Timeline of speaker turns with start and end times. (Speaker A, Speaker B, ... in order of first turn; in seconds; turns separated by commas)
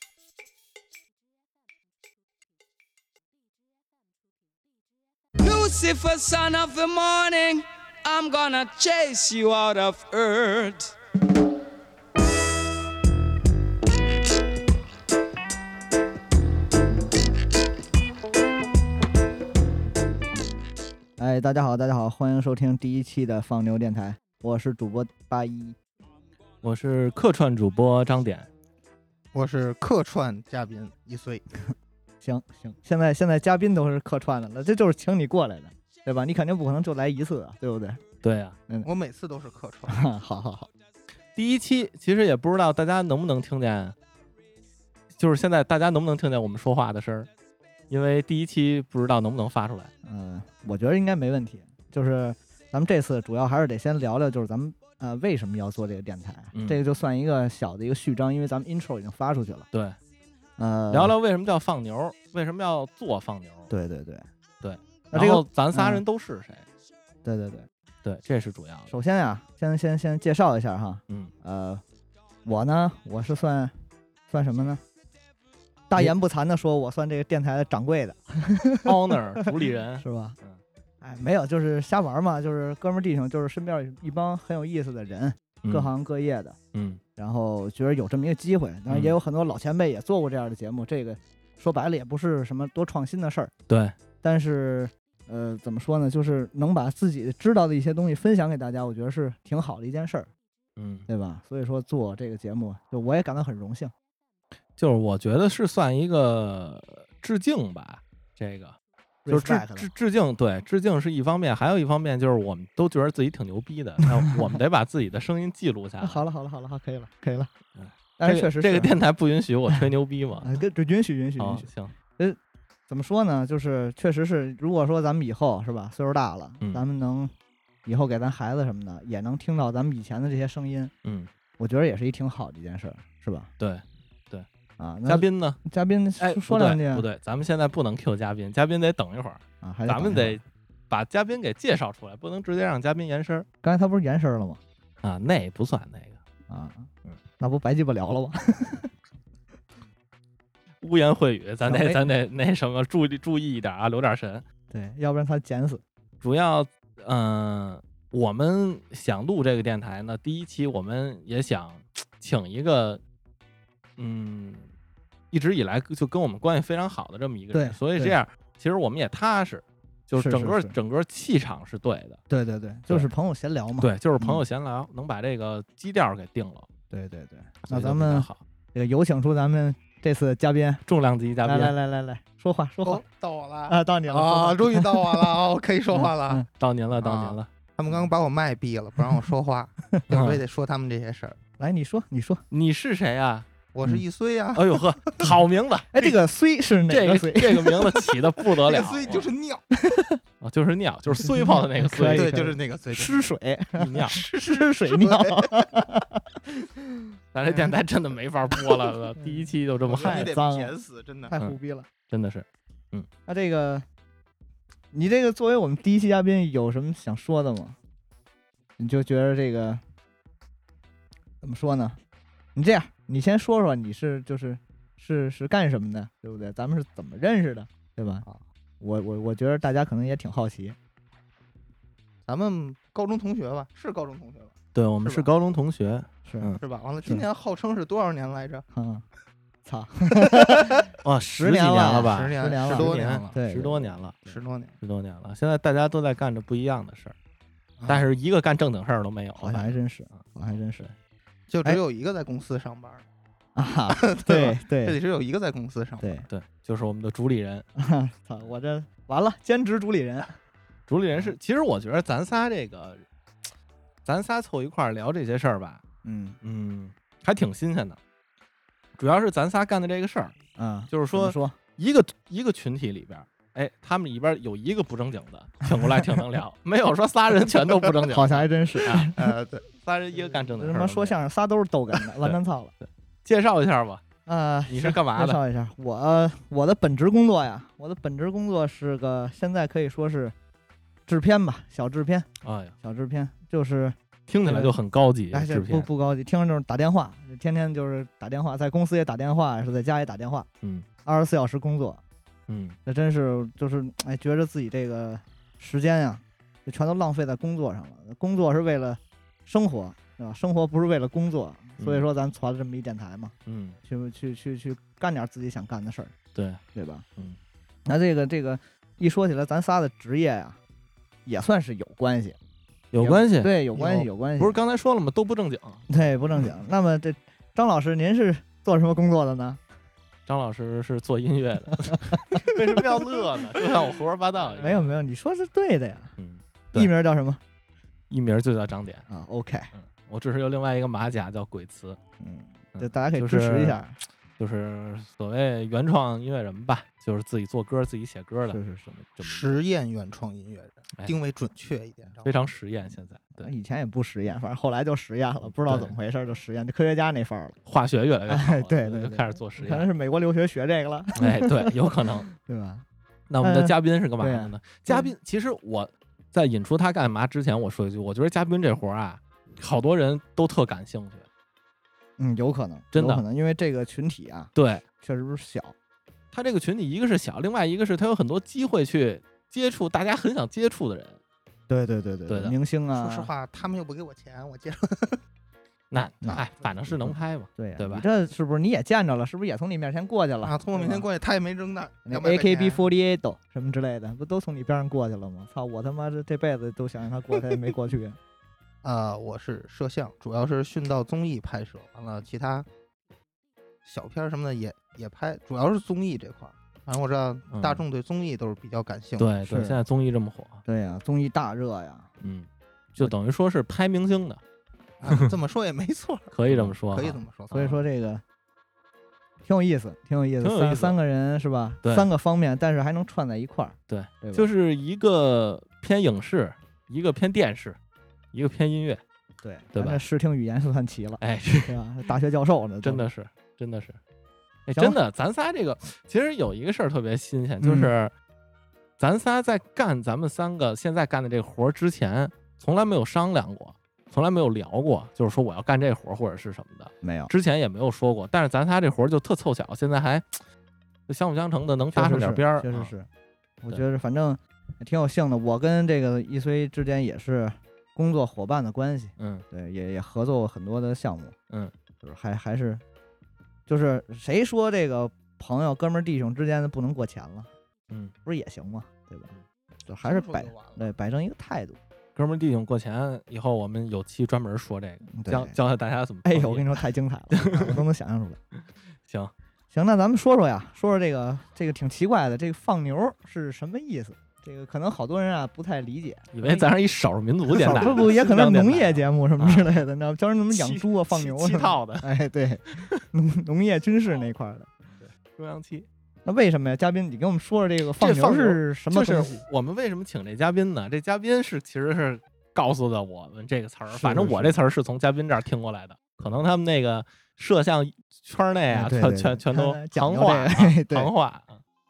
Speaker A: 5.4-10.9, Speaker B: 21.2-25.8, Speaker C: 26.6-28.5, Speaker D: 29.3-31.4, Speaker B: 31.7-38.0, Speaker C: 38.2-38.6, Speaker D: 38.8-40.0, Speaker B: 39.9-40.7, Speaker C: 41.3-44.0, Speaker C: 45.1-47.3, Speaker C: 47.9-49.9, Speaker B: 50.0-59.7, Speaker C: 56.5-56.8, Speaker C: 59.7-60.0, Speaker B: 60.6-61.1, Speaker C: 60.9-63.7, Speaker B: 63.7-64.2, Speaker C: 64.6-66.7, Speaker B: 65.1-66.0, Speaker B: 67.2-67.7, Speaker C: 68.0-68.9, Speaker B: 68.9-71.8, Speaker B: 72.4-73.7, Speaker B: 74.3-74.8, Speaker B: 75.9-79.1, Speaker C: 78.8-80.6, Speaker B: 80.0-80.4, Speaker B: 81.0-86.6, Speaker C: 85.6-85.9, Speaker C: 86.7-87.0, Speaker B: 87.2-93.5, Speaker C: 88.9-89.2, Speaker C: 93.7-93.9, Speaker B: 94.2-100.3, Speaker C: 100.8-101.0, Speaker B: 101.1-103.9, Speaker C: 104.8-108.8, Speaker B: 109.2-109.9, Speaker C: 109.3-116.2, Speaker B: 116.0-117.5, Speaker C: 117.8-120.6, Speaker B: 118.2-119.0, Speaker B: 120.4-122.4, Speaker C: 121.4-121.9, Speaker B: 122.9-127.3, Speaker B: 127.8-130.9, Speaker C: 131.0-131.3, Speaker B: 131.6-133.5, Speaker C: 133.6-134.4, Speaker B: 134.8-137.1, Speaker C: 135.1-135.6, Speaker C: 136.2-143.5, Speaker B: 139.6-140.4, Speaker B: 143.6-144.6, Speaker C: 145.0-146.2, Speaker B: 146.5-146.9, Speaker B: 147.4-148.9, Speaker C: 150.8-154.4, Speaker B: 151.6-152.1, Speaker B: 154.7-155.8, Speaker C: 156.2-163.0, Speaker C: 164.0-164.7, Speaker C: 165.3-172.2, Speaker B: 167.5-168.2, Speaker B: 170.1-170.8, Speaker B: 172.3-174.5, Speaker C: 173.8-176.7, Speaker B: 176.9-180.8, Speaker C: 177.6-178.4, Speaker C: 180.8-181.7, Speaker B: 181.4-183.0, Speaker D: 182.8-186.4, Speaker B: 183.7-185.4, Speaker B: 185.9-186.5, Speaker C: 186.6-187.5, Speaker D: 187.0-191.4, Speaker C: 190.1-190.4, Speaker B: 191.6-192.4, Speaker C: 192.5-193.5, Speaker D: 193.7-195.3, Speaker C: 194.5-196.2, Speaker B: 195.9-198.3, Speaker C: 196.9-199.3, Speaker D: 198.6-199.6, Speaker B: 199.7-200.2, Speaker C: 200.4-202.3, Speaker B: 201.2-206.2, Speaker D: 202.0-203.2, Speaker C: 203.8-204.2, Speaker D: 204.0-205.7, Speaker C: 207.3-210.4, Speaker B: 209.2-210.7, Speaker D: 209.8-211.3, Speaker B: 211.3-211.9, Speaker C: 211.4-213.1, Speaker B: 213.3-213.8, Speaker B: 214.9-217.8, Speaker B: 218.8-219.8, Speaker B: 221.4-222.0, Speaker B: 222.5-228.2, Speaker B: 228.8-230.8, Speaker D: 232.2-235.2, Speaker C: 234.7-236.6, Speaker B: 236.2-237.2, Speaker D: 236.6-238.7, Speaker B: 238.7-239.0, Speaker B: 239.6-240.8, Speaker C: 240.9-244.2, Speaker B: 241.4-244.4, Speaker D: 242.0-243.3, Speaker D: 244.2-244.8, Speaker C: 244.8-247.2, Speaker B: 247.8-248.1, Speaker C: 247.9-250.6, Speaker B: 249.4-250.9, Speaker D: 251.5-253.0, Speaker B: 253.5-255.0, Speaker D: 253.9-256.2, Speaker B: 256.0-256.3, Speaker C: 256.3-257.6, Speaker B: 257.8-260.3, Speaker C: 260.9-263.0, Speaker C: 264.0-265.8, Speaker B: 266.0-266.4, Speaker C: 266.4-268.0, Speaker C: 269.0-270.3, Speaker B: 270.6-271.6, Speaker C: 270.9-279.1, Speaker B: 278.1-279.3, Speaker D: 279.1-279.6, Speaker C: 279.8-281.2, Speaker B: 280.5-282.7, Speaker C: 282.2-284.0, Speaker B: 284.2-290.3, Speaker C: 284.7-285.4, Speaker B: 291.1-292.3, Speaker C: 292.4-292.8, Speaker B: 292.8-294.8, Speaker C: 294.3-295.9, Speaker B: 295.3-300.5, Speaker B: 301.0-302.0, Speaker C: 302.5-302.8, Speaker B: 302.9-316.1, Speaker C: 311.8-312.1, Speaker C: 313.4-313.8, Speaker C: 316.3-316.6, Speaker B: 316.7-317.1, Speaker B: 317.9-320.6, Speaker B: 321.2-322.4, Speaker C: 322.9-325.9, Speaker B: 323.0-324.6, Speaker B: 325.9-329.6, Speaker C: 330.2-335.0, Speaker B: 334.6-336.1, Speaker C: 336.2-336.9, Speaker B: 336.7-337.4, Speaker C: 338.1-339.0, Speaker B: 339.1-339.7, Speaker C: 339.7-342.0, Speaker B: 342.2-344.0, Speaker C: 342.7-343.8, Speaker C: 344.4-349.6, Speaker B: 348.5-348.9, Speaker D: 349.2-352.4, Speaker C: 352.2-353.5, Speaker B: 353.4-357.6, Speaker C: 355.4-355.9, Speaker C: 357.6-359.9, Speaker B: 358.3-362.8, Speaker C: 361.1-362.3, Speaker C: 363.3-371.3, Speaker B: 363.4-365.1, Speaker B: 372.2-375.7, Speaker C: 372.9-373.2, Speaker C: 374.5-374.8, Speaker C: 376.3-381.2, Speaker B: 381.7-383.3, Speaker C: 382.3-382.6, Speaker D: 382.9-385.2, Speaker C: 385.9-388.1, Speaker B: 386.2-391.1, Speaker D: 390.4-392.8, Speaker B: 392.1-398.2, Speaker D: 398.8-402.7, Speaker D: 403.8-409.3, Speaker C: 407.5-407.8, Speaker C: 409.2-410.6, Speaker B: 409.4-409.8, Speaker B: 410.6-412.1, Speaker C: 412.2-414.4, Speaker D: 415.0-417.7, Speaker C: 416.3-417.8, Speaker B: 417.5-418.2, Speaker B: 419.4-424.5, Speaker C: 420.4-421.0, Speaker C: 421.8-422.1, Speaker C: 423.9-427.8, Speaker C: 428.3-429.0, Speaker B: 429.4-433.1, Speaker C: 429.7-430.0, Speaker C: 431.2-431.8, Speaker C: 432.8-434.0, Speaker C: 434.6-438.1, Speaker B: 434.7-435.0, Speaker B: 437.6-437.9, Speaker C: 439.0-450.4, Speaker B: 447.0-447.3, Speaker C: 451.1-452.9, Speaker B: 451.9-453.1, Speaker B: 453.6-461.4, Speaker C: 459.2-459.4, Speaker B: 462.0-462.8, Speaker B: 463.7-467.5, Speaker B: 468.2-469.3, Speaker B: 469.9-471.8, Speaker D: 470.0-470.9, Speaker C: 472.1-477.8, Speaker B: 475.1-475.6, Speaker B: 476.2-478.4, Speaker C: 479.0-479.3, Speaker B: 479.7-486.7, Speaker C: 486.3-489.8, Speaker B: 487.5-494.7, Speaker C: 490.5-492.1, Speaker C: 494.9-495.9, Speaker B: 496.2-499.4, Speaker C: 497.9-511.6, Speaker B: 503.9-504.6, Speaker B: 508.7-511.1